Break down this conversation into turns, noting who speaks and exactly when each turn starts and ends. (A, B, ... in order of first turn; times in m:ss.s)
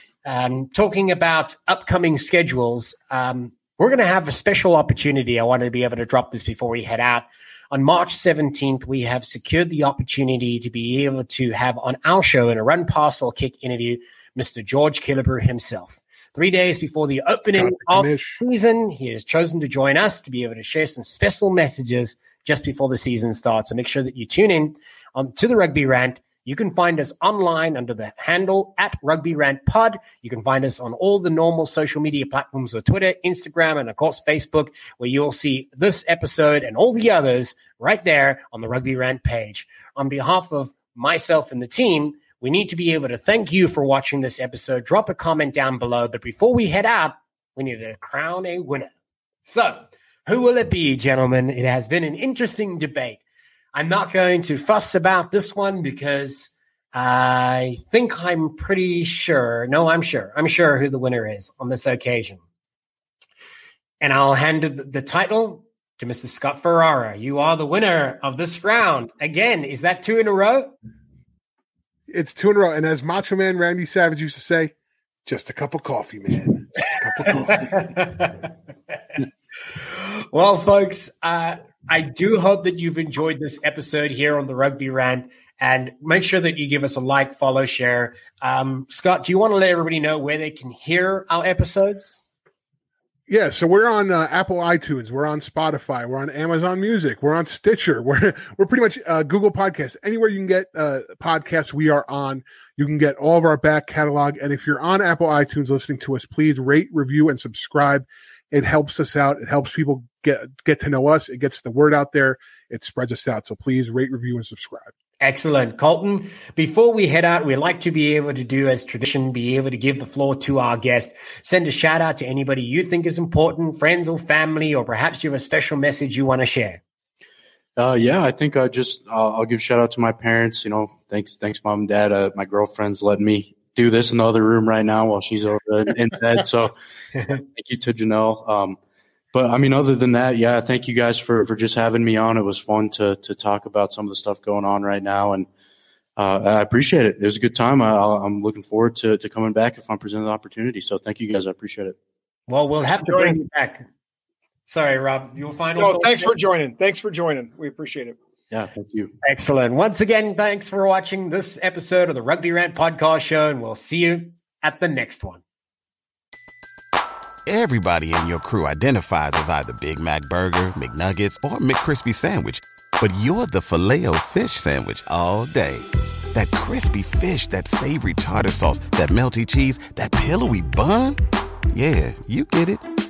0:00.2-0:48.9 A
0:17.5-0:18.4 B
0:49.4-0:53.2 A
0:53.7-1:02.4 A
1:04.0-1:10.7 A
1:12.1-1:14.7 B
1:15.2-1:17.8 B
1:17.2-1:18.4 A
1:19.7-1:32.2 A
1:33.3-1:54.9 B
1:55.2-2:06.8 A
2:07.8-2:16.7 C
2:17.3-2:18.8 C
2:19.3-2:25.5 C
2:26.2-2:32.0 C
2:32.5-2:33.9 A
2:33.0-2:33.4 D
2:34.7-2:36.3 A
2:35.8-2:38.2 D
2:38.5-2:39.1 C
2:39.2-2:45.4 A
2:47.4-3:01.2 E
3:01.7-3:02.8 E